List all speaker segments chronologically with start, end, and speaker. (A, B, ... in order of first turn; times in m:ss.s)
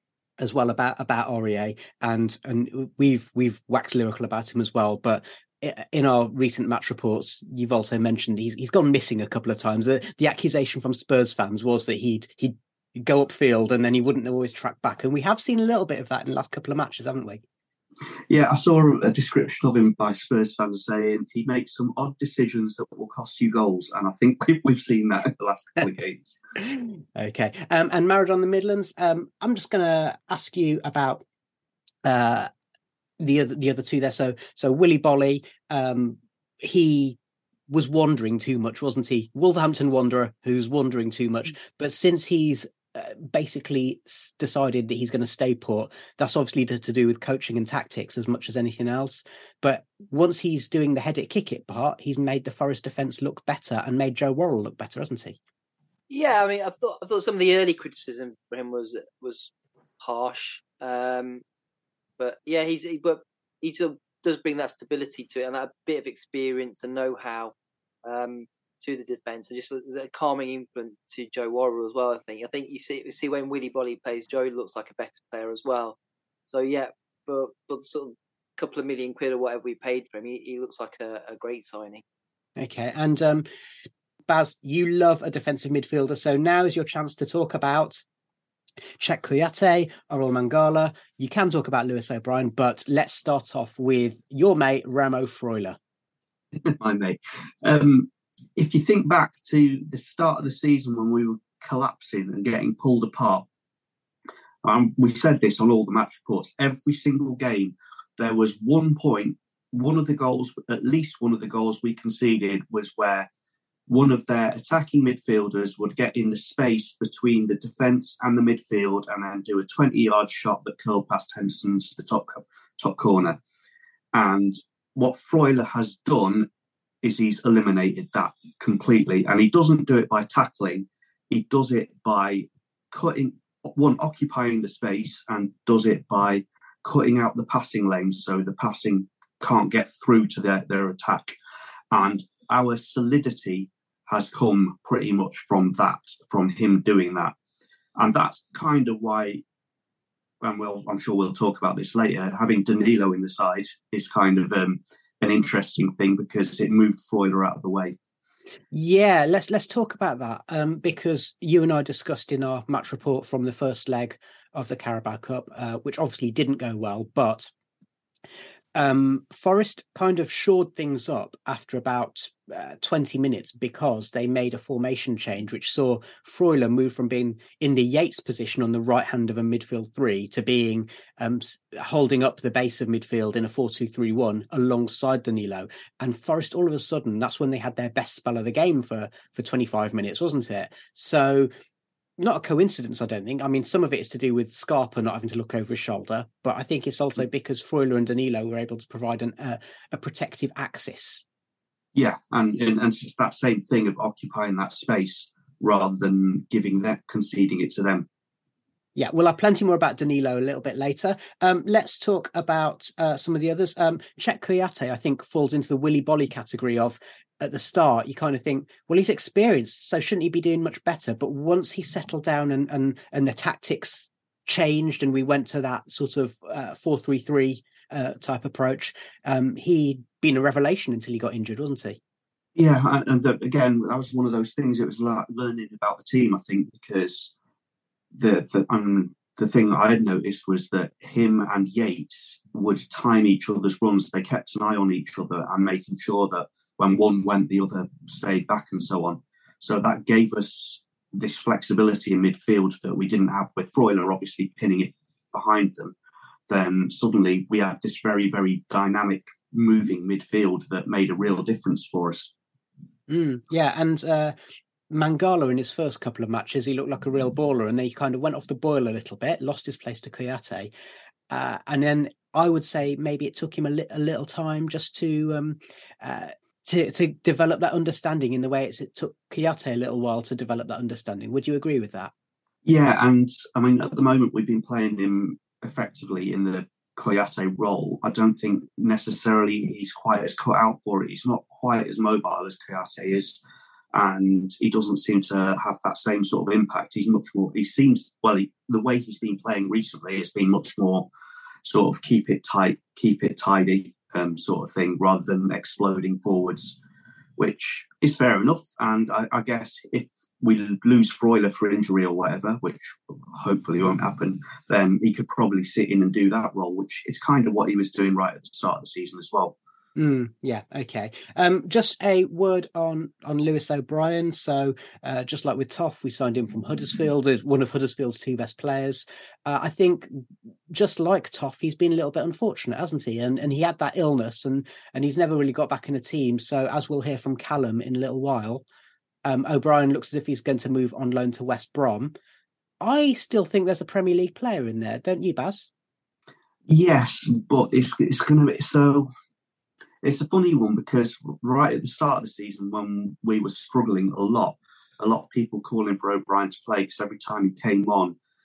0:00.4-0:17.4 A
0:18.3-0:26.4 B
0:27.2-0:31.2 A
0:32.0-0:32.5 A
0:33.2-0:37.2 A
0:37.7-0:55.4 A
0:56.1-1:01.4 C
1:02.2-1:07.5 C
1:08.0-1:16.0 C
1:16.5-1:22.0 C
1:22.6-1:23.4 A
1:24.3-1:28.0 A
1:29.0-1:35.8 A
1:36.6-1:43.4 B
1:44.6-1:53.3 B
1:53.9-2:03.4 B
2:04.1-2:06.5 B
2:07.0-2:21.4 B
2:21.9-2:27.3 B
2:28.0-2:29.4 B
2:30.4-2:38.0 B
2:38.7-2:47.5 A
2:48.8-3:11.5 A
3:12.2-3:21.2 A
3:21.9-3:28.1 B
3:29.0-3:52.0 A
3:52.6-3:57.3 B
3:58.1-4:15.9 B
4:16.5-4:22.3 B
4:23.1-4:24.4 A
4:24.9-4:30.7 A
4:31.3-4:42.1 A
4:42.6-4:53.4 B
4:53.9-5:01.1 B
5:01.6-5:06.8 B
5:07.4-5:19.5 B
5:20.0-5:38.6 A
5:39.2-5:42.1 A
5:42.8-5:45.7 A
5:46.7-5:49.1 B
5:50.0-5:58.2 B